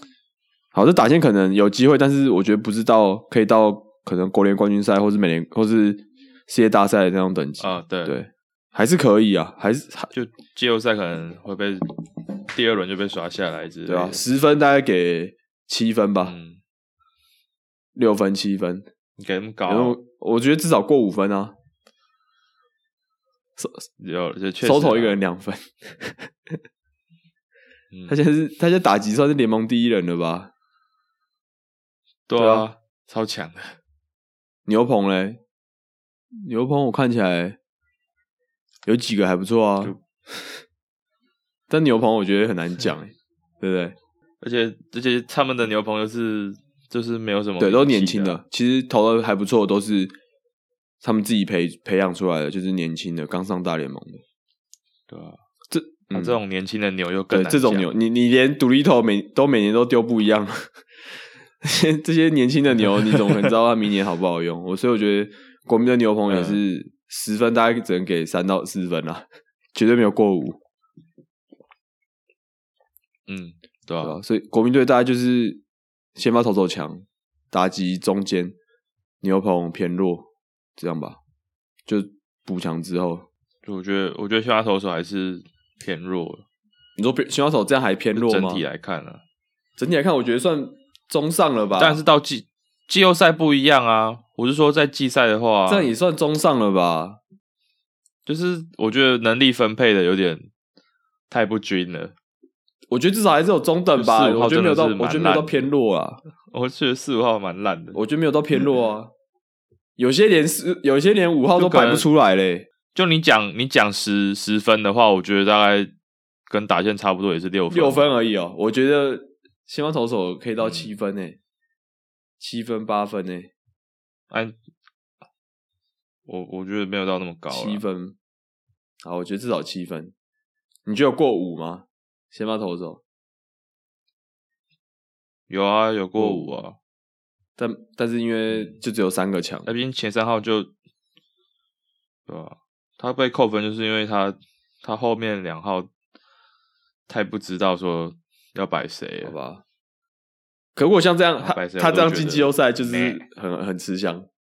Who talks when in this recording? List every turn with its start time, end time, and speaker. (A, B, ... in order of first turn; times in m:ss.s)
0:00.7-0:10.1 A
0:07.6-0:08.2 B
0:10.1-0:11.8 B
0:12.4-0:14.2 B
0:13.9-0:16.3 A
0:16.2-0:16.6 B
0:17.9-0:18.8 A
0:19.2-0:20.0 B
0:19.7-0:21.5 A
0:23.6-0:23.8 A
0:24.0-0:25.2 B
0:24.6-0:26.3 A
0:28.1-0:30.5 A
0:32.3-0:33.8 B
0:32.4-0:32.7 A
0:34.6-0:35.4 A
0:36.3-0:37.6 A
0:38.8-0:39.9 A
0:41.7-0:44.0 A
0:44.4-0:48.4 B
0:47.6-0:50.1 A
0:51.0-0:54.2 A
0:55.1-0:55.4 B
0:55.7-0:56.4 A
0:56.1-0:57.9 B
0:57.3-1:00.7 A
1:01.6-1:10.6 A
1:06.3-1:06.6 B
1:13.3-1:14.2 B
1:14.0-1:15.6 A
1:16.2-1:18.5 A
1:19.2-1:21.2 A
1:21.9-1:23.3 A
1:23.6-1:26.4 B
1:27.0-1:28.6 A
1:28.1-1:29.2 B
1:29.8-1:32.0 A
1:31.8-1:35.9 B
1:35.7-1:37.2 A
1:38.2-1:40.5 B
1:41.3-1:42.1 B
1:42.9-1:46.2 A
1:43.9-1:45.6 B
1:46.5-1:48.0 B
1:47.9-1:49.1 A
1:50.0-1:52.6 A
1:51.6-1:52.1 B
1:52.9-1:55.9 B
1:56.5-1:58.1 B
1:57.7-2:01.4 A
2:00.6-2:00.9 B
2:02.4-2:03.5 A
2:06.2-2:07.8 B
2:07.5-2:08.2 A
2:09.0-2:10.1 A
2:10.8-2:13.0 A
2:15.5-2:16.8 B
2:16.2-2:16.4 A
2:17.6-2:19.7 A
2:19.6-2:20.7 B
2:22.3-2:25.9 B
2:27.1-2:29.3 B
2:29.2-2:29.6 A
2:30.8-2:34.3 A
2:31.4-2:33.2 B